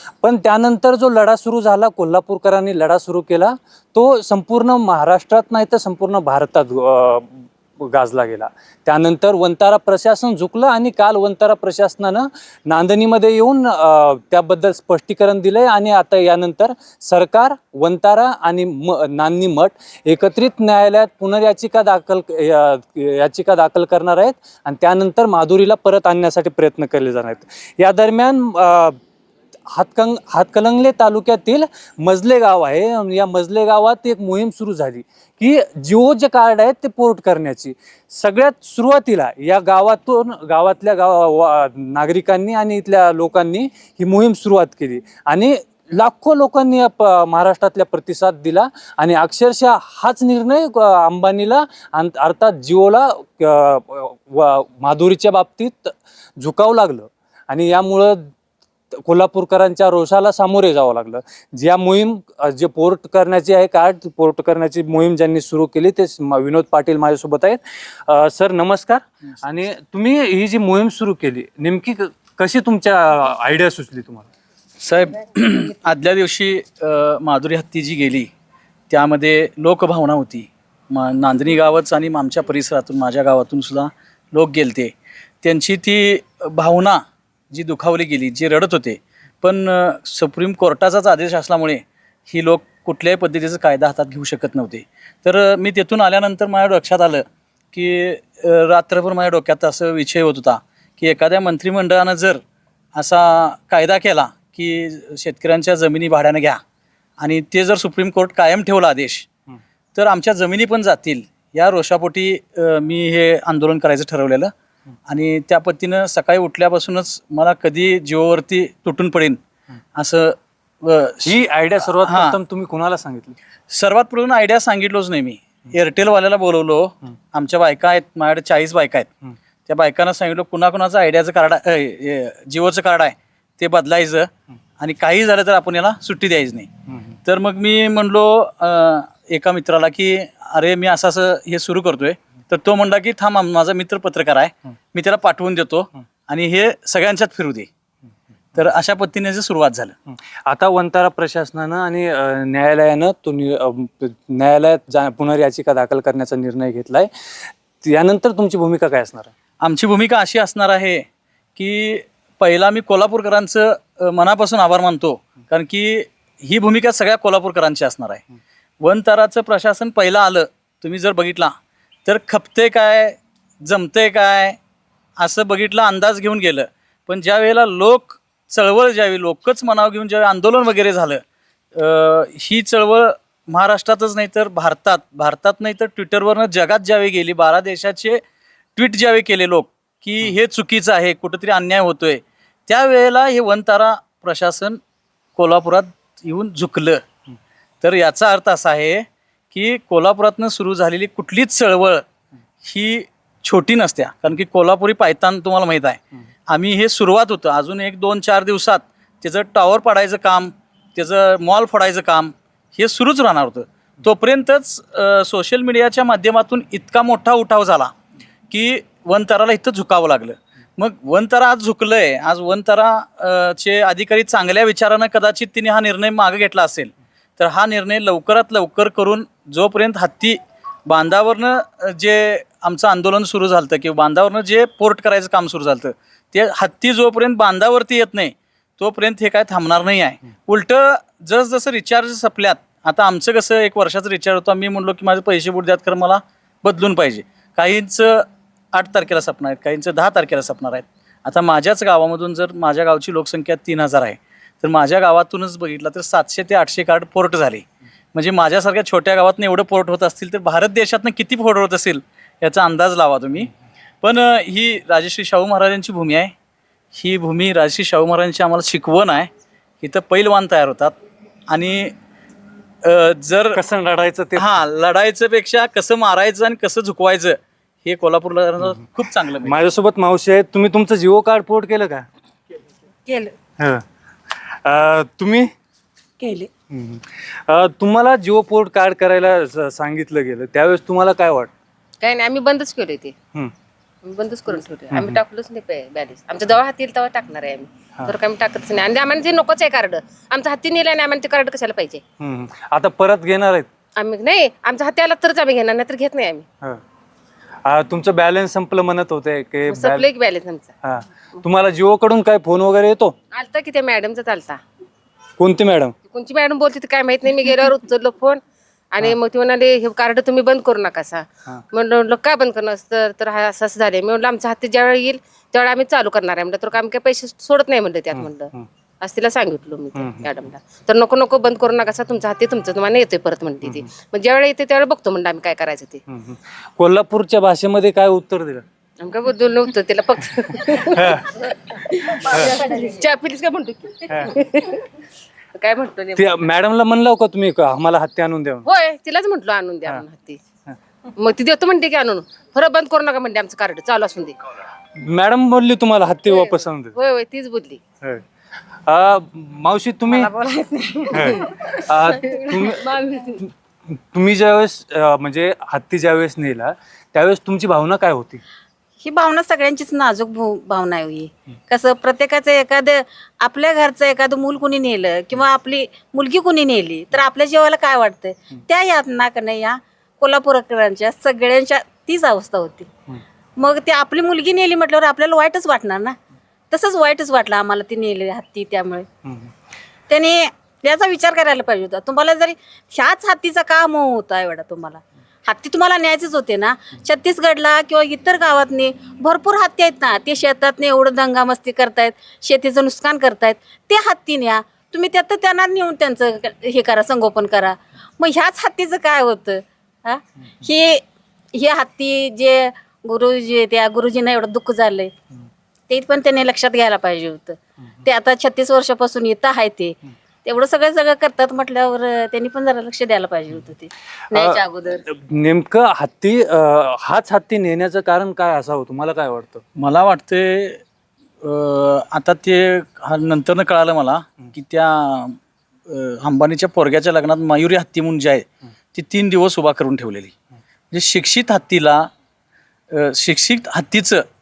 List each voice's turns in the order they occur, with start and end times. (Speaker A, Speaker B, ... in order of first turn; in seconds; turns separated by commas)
Speaker A: 0.2-29.0, Speaker A: 29.7-58.3, Speaker A: 58.9-74.2, Speaker B: 74.8-78.3, Speaker B: 78.9-102.4, Speaker B: 102.9-106.6, Speaker B: 107.2-109.3, Speaker B: 109.9-114.5, Speaker B: 115.1-119.4, Speaker B: 120.0-121.3, Speaker A: 121.2-123.3, Speaker B: 122.0-122.4, Speaker B: 123.7-129.1, Speaker B: 129.7-136.7, Speaker B: 137.2-147.7, Speaker B: 148.5-149.9, Speaker A: 150.5-159.3, Speaker B: 159.6-161.0, Speaker B: 161.6-168.2, Speaker B: 168.8-171.5, Speaker B: 172.1-174.6, Speaker B: 175.2-181.2, Speaker B: 181.7-188.2, Speaker B: 188.8-194.8, Speaker B: 195.3-197.0, Speaker B: 197.8-202.0, Speaker B: 202.6-217.9, Speaker B: 218.5-263.5, Speaker B: 264.0-266.3, Speaker B: 266.9-270.9, Speaker B: 271.5-271.9, Speaker B: 272.8-273.6, Speaker A: 273.5-274.5, Speaker B: 274.4-279.6, Speaker A: 279.4-282.1, Speaker C: 283.1-283.3, Speaker A: 283.6-285.5, Speaker C: 286.2-286.5, Speaker A: 286.7-291.5, Speaker D: 292.0-293.1, Speaker D: 294.0-302.0, Speaker A: 294.9-295.2, Speaker A: 302.2-303.7, Speaker D: 304.0-306.4, Speaker A: 307.6-310.1, Speaker D: 309.7-310.7, Speaker A: 310.8-313.1, Speaker D: 313.3-314.6, Speaker A: 315.4-315.9, Speaker D: 316.1-318.4, Speaker D: 318.9-336.0, Speaker A: 328.1-328.7, Speaker A: 329.9-330.3, Speaker A: 336.1-338.6, Speaker D: 339.0-344.9, Speaker A: 340.9-341.4, Speaker A: 342.1-342.6, Speaker D: 345.5-346.3, Speaker A: 346.1-348.6, Speaker D: 348.6-350.4, Speaker D: 351.1-354.3, Speaker A: 354.9-356.9, Speaker D: 356.3-357.8, Speaker A: 358.9-360.3, Speaker D: 360.1-363.4, Speaker A: 361.1-368.4, Speaker C: 369.0-382.9, Speaker C: 383.6-386.1, Speaker C: 386.7-389.1, Speaker C: 390.1-411.0, Speaker C: 411.5-415.1, Speaker C: 415.9-425.0, Speaker A: 424.3-429.6, Speaker B: 429.8-430.8, Speaker B: 431.4-435.4, Speaker B: 435.9-440.3, Speaker B: 440.9-442.1, Speaker B: 442.9-444.2